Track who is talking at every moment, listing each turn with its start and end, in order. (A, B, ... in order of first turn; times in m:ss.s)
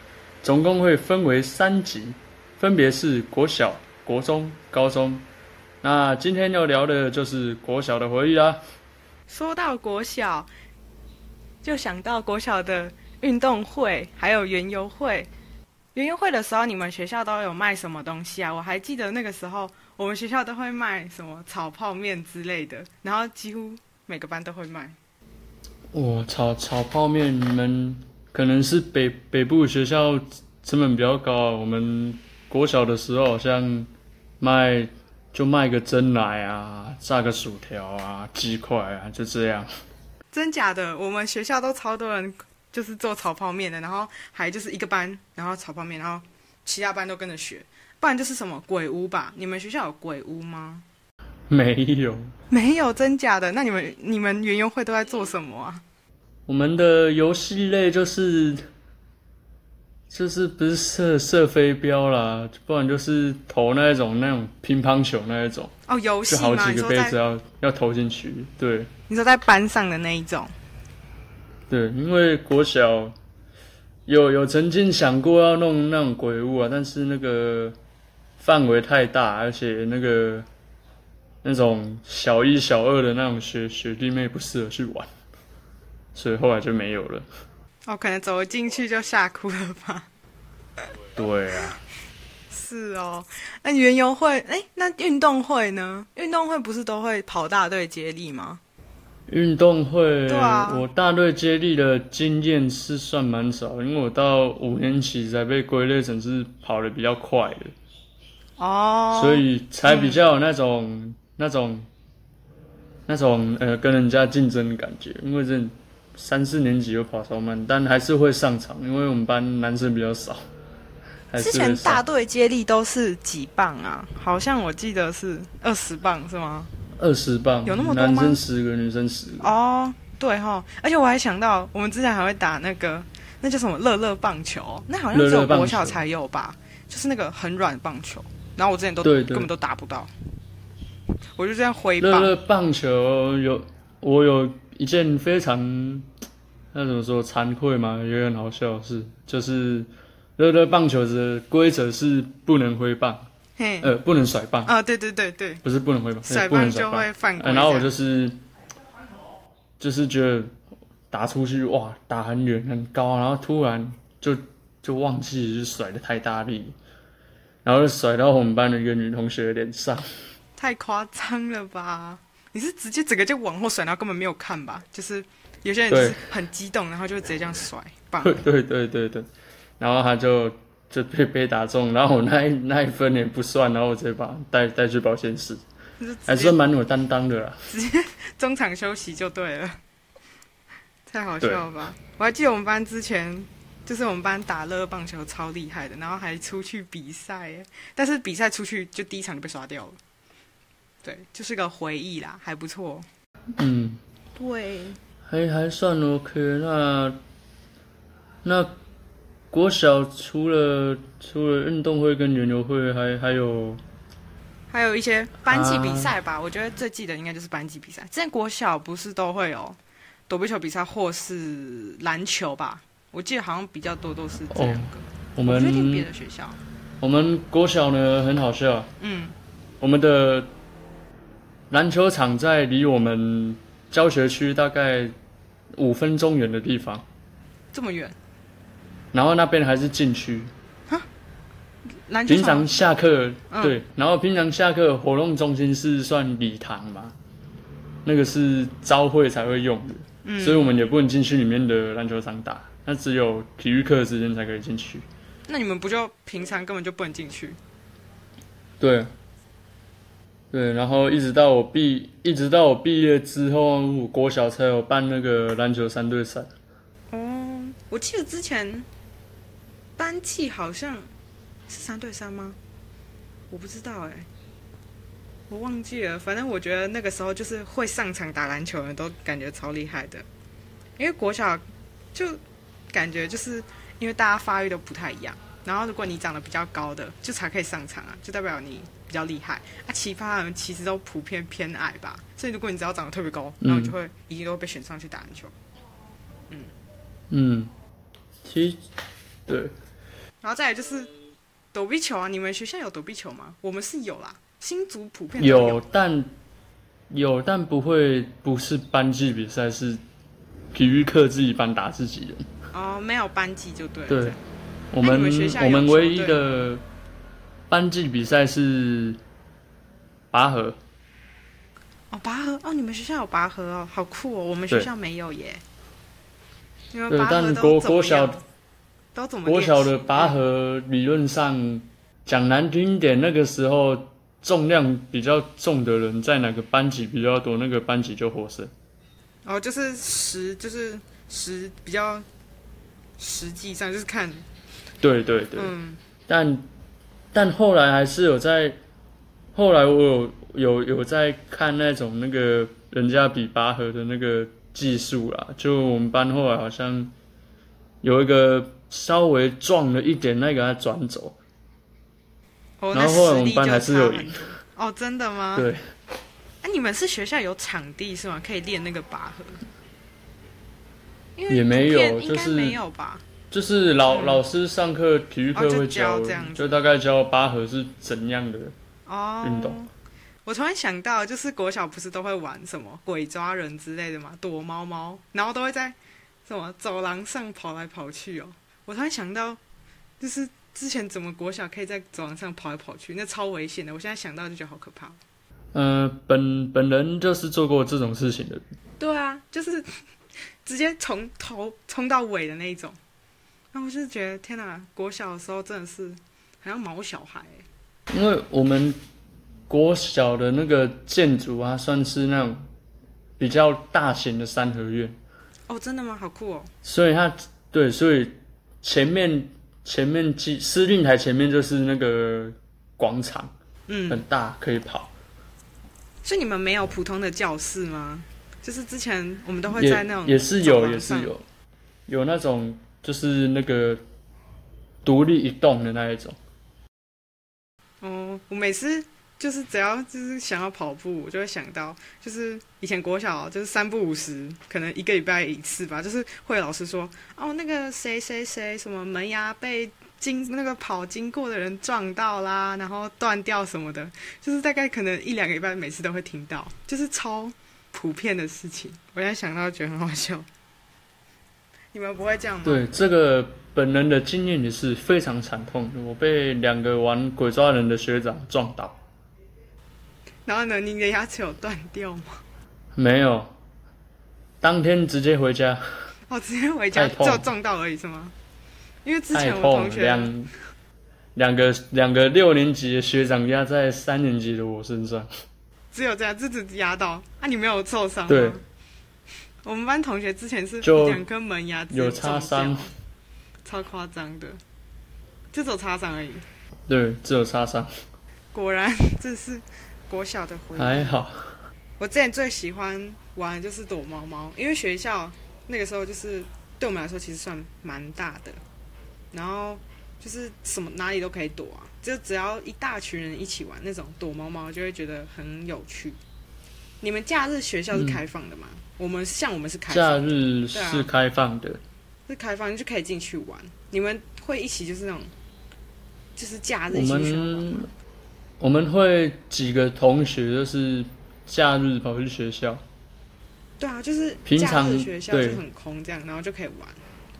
0:00.4-0:05.2 A
0:05.8-0:08.6 A
0:09.3-0:10.5 B
0:11.6-0:15.3 B
0:15.9-0:25.0 B
0:25.9-0:33.9 A
0:34.4-0:39.7 A
0:40.3-0:50.8 B
0:51.5-0:52.3 A
0:52.5-0:55.8 B
0:56.5-0:58.6 A
1:00.1-1:05.7 A
1:05.9-1:07.2 B
1:06.3-1:08.9 A
1:09.1-1:10.5 B
1:11.7-1:13.1 A
1:14.0-1:17.8 A
1:18.4-1:20.5 A
1:21.4-1:25.1 A
1:26.1-1:27.3 A
1:27.8-1:30.1 B
1:31.1-1:31.8 A
1:32.5-1:38.6 B
1:39.3-1:47.7 A
1:40.3-1:40.8 B
1:48.6-1:50.2 B
1:49.1-1:51.9 A
1:53.1-2:00.4 A
2:01.3-2:02.0 A
2:01.4-2:06.7 B
2:07.0-2:09.5 A
2:07.6-2:08.4 B
2:09.4-2:20.1 B
2:15.1-2:16.0 A
2:19.0-2:19.5 A
2:21.4-2:22.3 B
2:22.0-2:26.1 A
2:26.7-2:33.3 A
2:33.6-2:33.9 B
2:33.8-2:34.7 A
2:34.6-2:35.6 B
2:35.6-2:38.4 A
2:36.2-2:37.9 B
2:39.8-2:40.5 A
2:41.1-2:46.7 A
2:47.6-2:50.1 A
2:50.6-2:58.4 B
2:55.9-2:56.2 A
2:58.2-2:59.3 A
2:59.8-3:05.6 A
3:06.0-3:06.6 B
3:06.3-3:07.7 A
3:07.7-3:09.8 B
3:11.1-3:20.0 B
3:21.0-3:23.1 B
3:23.6-3:24.0 A
3:24.4-3:25.0 B
3:25.3-3:27.2 A
3:28.4-3:28.7 A
3:29.5-3:33.8 A
3:34.7-3:46.6 B
3:35.5-3:36.1 A
3:44.5-3:46.1 A
3:47.0-3:48.9 A
3:49.0-3:49.4 B
3:49.8-3:50.5 A
3:51.7-3:55.1 A
3:55.7-3:57.0 A
3:57.7-3:58.1 B
3:59.1-4:00.5 A
4:02.1-4:02.7 B
4:02.3-4:07.1 A
4:03.5-4:03.8 B
4:08.0-4:15.0 A
4:10.2-4:10.7 B
4:15.5-4:17.6 B
4:18.8-4:19.1 A
4:20.5-4:26.5 A
4:27.1-4:28.9 B
4:30.0-4:31.1 B
4:31.7-4:32.6 B
4:33.5-4:34.3 B
4:35.5-4:40.2 B
4:41.0-4:41.6 B
4:42.1-4:42.4 B
4:42.9-4:55.5 B
4:53.6-4:53.9 A
4:57.3-4:57.7 A
4:58.4-4:58.8 A
4:59.5-4:59.7 A
5:00.4-5:01.1 B
5:01.7-5:05.8 B
5:05.4-5:06.3 A
5:07.1-5:10.0 A
5:10.7-5:12.5 A
5:12.7-5:14.4 B
5:14.1-5:14.4 A
5:14.9-5:16.8 A
5:15.0-5:16.4 B
5:17.7-5:19.2 A
5:20.3-5:20.8 A
5:22.1-5:25.6 B
5:26.9-5:28.4 B
5:27.1-5:28.4 A
5:29.1-5:30.4 B
5:29.4-5:38.7 A
5:39.4-5:42.2 B
5:43.2-5:44.4 B
5:45.0-5:45.7 A
5:45.5-5:46.0 B
5:46.3-5:46.7 A
5:47.3-5:48.8 A
5:49.5-5:57.1 A
5:58.0-6:01.4 A
6:02.8-6:05.7 B
6:02.9-6:04.5 A
6:05.5-6:05.8 A
6:06.6-6:09.6 B
6:11.4-6:13.2 B
6:11.5-6:12.8 A
6:13.5-6:18.7 A
6:14.0-6:14.4 B
6:15.5-6:16.8 B
6:19.0-6:19.9 B
6:19.4-6:19.8 A
6:20.4-6:29.6 B
6:30.2-6:35.2 B
6:35.7-6:38.6 A
6:39.0-6:39.9 B
6:40.6-6:43.0 B
6:43.7-6:47.6 B
6:48.1-6:49.0 A
6:49.7-6:52.7 A
6:53.4-6:55.2 A
6:55.7-6:56.7 B
6:56.8-7:03.5 A
7:03.9-7:04.2 B
7:04.1-7:05.1 A
7:06.2-7:11.3 B
7:09.7-7:11.4 A
7:12.1-7:14.0 A
7:15.0-7:16.4 A
7:18.0-7:40.4 B
7:41.9-7:42.8 B
7:42.6-7:49.0 A
7:50.4-7:52.4 B
7:52.9-7:53.5 A
7:54.6-7:55.8 A
7:56.3-7:58.3 B
7:56.9-7:57.5 A
7:59.0-8:00.3 B
7:59.3-8:00.5 A
8:01.3-8:05.3 A
8:05.9-8:08.6 B
8:08.3-8:08.6 A
8:09.6-8:12.9 B
8:10.8-8:11.2 A
8:11.9-8:12.9 A
8:13.6-8:14.6 B
8:15.5-8:16.4 B
8:16.9-8:17.9 A
8:18.5-8:21.2 B
8:20.8-8:21.6 A
8:22.0-8:28.6 B
8:29.3-8:36.2 B
8:37.0-8:41.1 B
8:37.9-8:38.2 A
8:39.9-8:41.8 A
8:42.3-8:45.3 B
8:46.4-8:47.9 B
8:46.9-8:47.9 A
8:48.6-8:52.8 A
8:53.8-8:57.0 B
8:54.4-8:55.6 A